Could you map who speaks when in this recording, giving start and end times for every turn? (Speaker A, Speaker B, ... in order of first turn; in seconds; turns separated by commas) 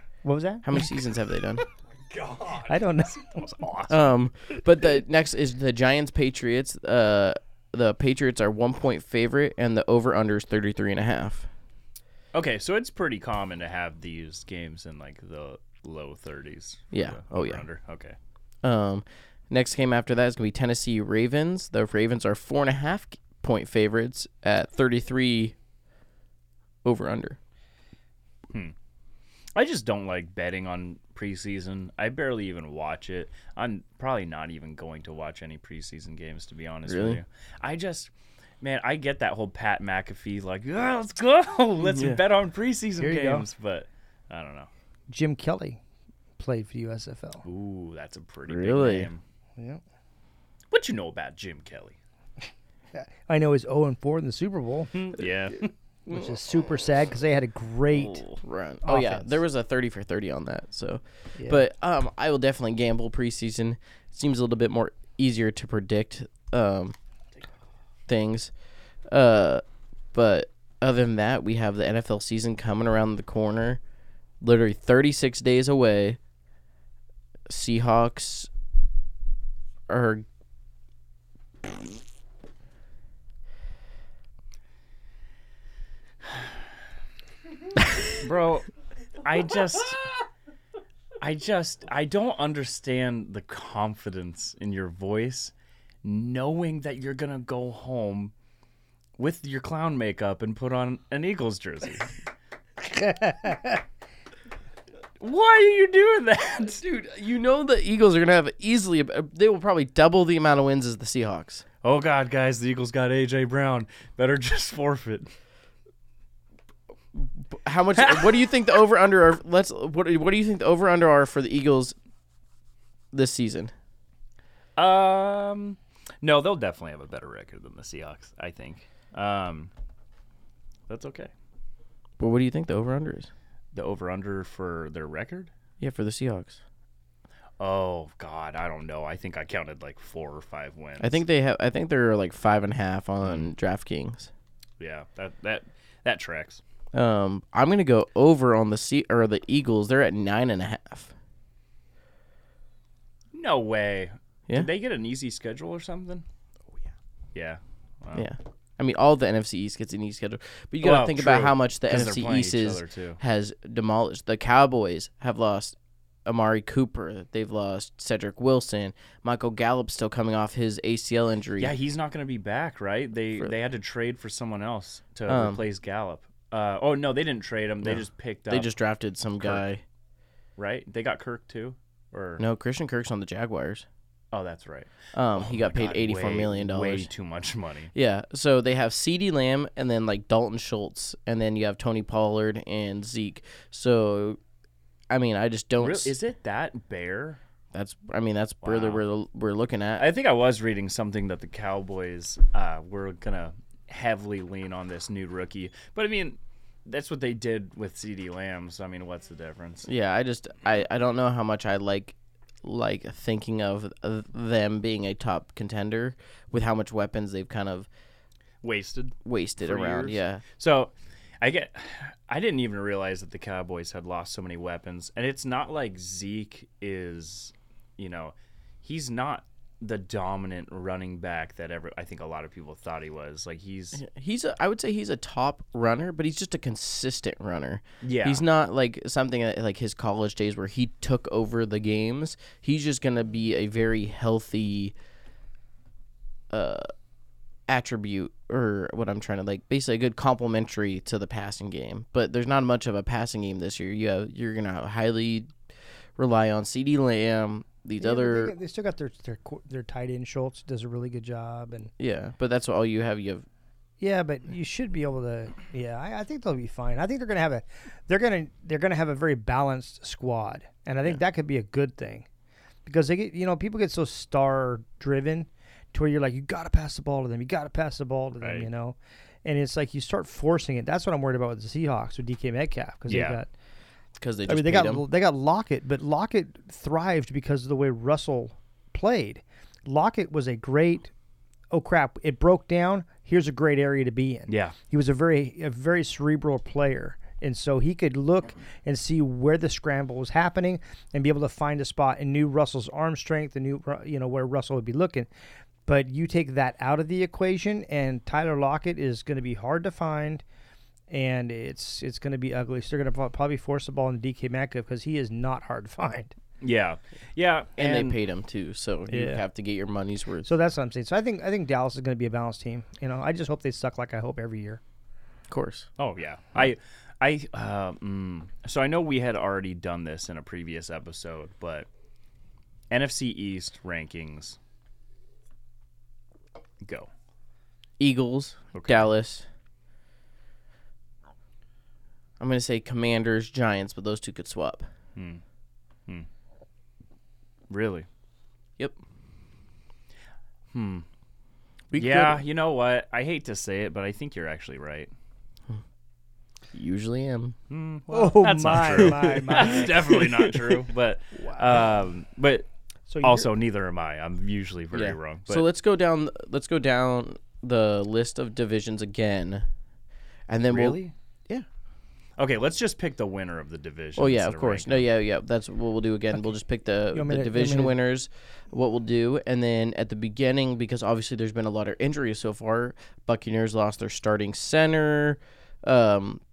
Speaker A: 0.2-0.7, Speaker B: 0.6-1.6, Speaker C: 2.3-2.7, Speaker A: 2.7-3.4, Speaker C: 3.2-4.0, Speaker B: 3.9-11.5, Speaker C: 12.3-18.2, Speaker B: 16.9-17.6, Speaker B: 18.6-25.6, Speaker B: 26.8-27.4, Speaker C: 29.5-44.7, Speaker B: 36.9-37.2, Speaker B: 41.8-42.2, Speaker A: 43.0-43.5, Speaker A: 45.1-45.8, Speaker A: 46.4-47.5, Speaker C: 47.4-49.2, Speaker B: 48.5-49.1, Speaker A: 49.6-49.8, Speaker C: 50.7-52.0, Speaker A: 52.9-55.1, Speaker C: 54.9-55.7, Speaker A: 56.1-58.3, Speaker C: 57.9-58.4, Speaker B: 58.4-67.0, Speaker A: 58.8-59.4, Speaker B: 68.1-68.5, Speaker B: 69.1-69.6, Speaker B: 70.1-73.8, Speaker B: 74.4-76.2, Speaker B: 77.5-78.5, Speaker B: 79.9-80.2, Speaker C: 88.2-88.7, Speaker C: 89.2-90.0, Speaker C: 91.2-98.3, Speaker C: 99.2-102.1, Speaker A: 102.8-103.8, Speaker C: 105.2-106.8, Speaker B: 106.7-111.7, Speaker C: 111.8-115.3, Speaker B: 117.1-122.0, Speaker B: 123.1-123.7, Speaker C: 124.8-129.7, Speaker C: 130.9-131.3, Speaker B: 132.2-133.3, Speaker C: 133.7-135.5, Speaker B: 135.8-136.6, Speaker C: 137.6-141.2, Speaker B: 141.0-144.3, Speaker C: 144.8-146.6, Speaker B: 146.9-151.1, Speaker C: 153.3-156.2, Speaker C: 157.3-158.3, Speaker B: 158.1-165.8, Speaker C: 160.8-163.2, Speaker B: 166.3-171.8, Speaker C: 171.6-178.7, Speaker B: 175.3-175.6, Speaker B: 177.8-179.8, Speaker C: 179.4-179.7, Speaker C: 180.6-182.4, Speaker B: 182.4-183.9, Speaker C: 184.3-187.9, Speaker B: 185.1-187.1, Speaker B: 187.9-194.4, Speaker B: 195.1-196.2, Speaker C: 195.8-197.4, Speaker B: 197.7-200.1, Speaker C: 198.6-199.0, Speaker C: 200.0-209.9, Speaker B: 209.9-217.9, Speaker C: 218.6-234.0, Speaker B: 219.2-220.4, Speaker B: 233.9-244.9, Speaker C: 238.0-238.4, Speaker B: 246.5-246.9, Speaker B: 247.7-255.5, Speaker B: 256.2-258.5, Speaker A: 258.0-261.9, Speaker B: 262.0-263.5, Speaker A: 264.0-272.3, Speaker A: 272.9-283.5, Speaker C: 278.4-278.7, Speaker C: 283.1-283.4, Speaker B: 284.2-285.0, Speaker A: 284.5-291.1, Speaker A: 291.7-305.3, Speaker C: 294.5-294.8, Speaker A: 305.9-310.4, Speaker A: 311.1-316.3, Speaker C: 316.6-318.2, Speaker B: 317.8-320.5, Speaker A: 319.1-319.4, Speaker A: 320.4-324.8, Speaker B: 325.5-325.9, Speaker C: 326.0-331.9, Speaker C: 332.9-334.6, Speaker C: 336.8-337.1, Speaker B: 338.0-339.5, Speaker C: 338.8-339.1, Speaker B: 342.4-344.9, Speaker C: 345.2-345.4, Speaker C: 347.7-348.1, Speaker C: 350.7-351.1, Speaker B: 351.9-352.4, Speaker C: 351.9-355.1, Speaker B: 356.7-357.6, Speaker C: 357.7-362.7, Speaker A: 358.1-360.2, Speaker B: 359.0-360.8, Speaker A: 363.1-363.5, Speaker C: 363.2-365.6, Speaker B: 364.9-369.6, Speaker B: 370.5-371.7, Speaker C: 370.7-371.1, Speaker C: 372.4-375.1, Speaker B: 374.2-386.4, Speaker A: 377.1-378.0